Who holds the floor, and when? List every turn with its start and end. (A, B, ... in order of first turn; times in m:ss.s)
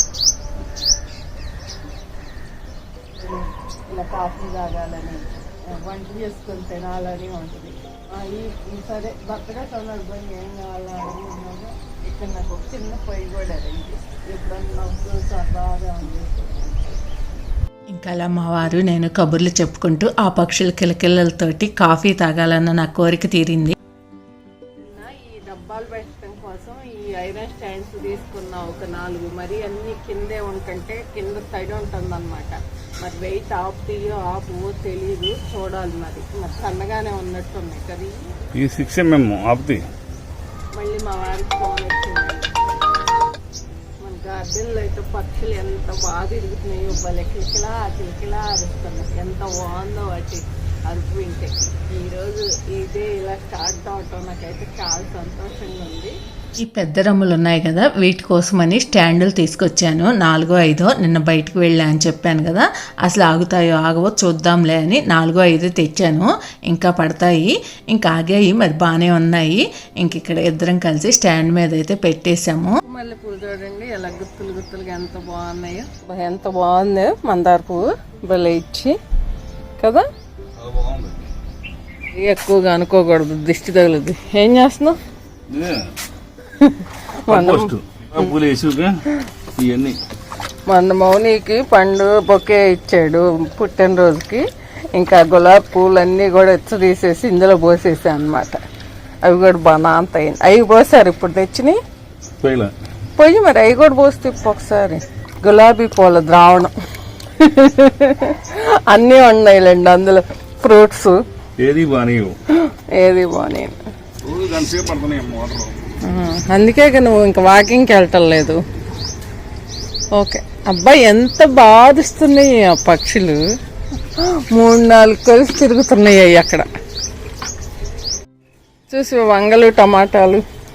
0:03.2-0:16.8 A
0:17.9-0:23.8 B
0:24.8-0:38.3 A
0:38.6-0:39.8 C
0:40.7-0:42.6 A
0:44.0-0:56.2 A
0:56.6-1:12.8 B
1:12.8-1:19.0 A
1:19.8-1:20.0 A
1:20.6-1:21.3 C
1:22.1-1:25.0 A
1:25.5-1:25.9 C
1:26.6-1:27.7 A
1:27.3-1:29.0 C
1:29.6-1:30.0 C
1:30.7-1:38.6 A
1:39.2-1:41.8 A
1:42.4-1:42.7 C
1:43.2-1:46.7 A
1:47.4-1:51.2 A
1:51.6-1:52.4 C
1:52.5-1:53.8 A
1:54.2-1:55.7 C
1:56.1-1:58.6 A
2:00.2-2:03.4 A
2:04.2-2:06.7 A
2:08.9-2:10.4 A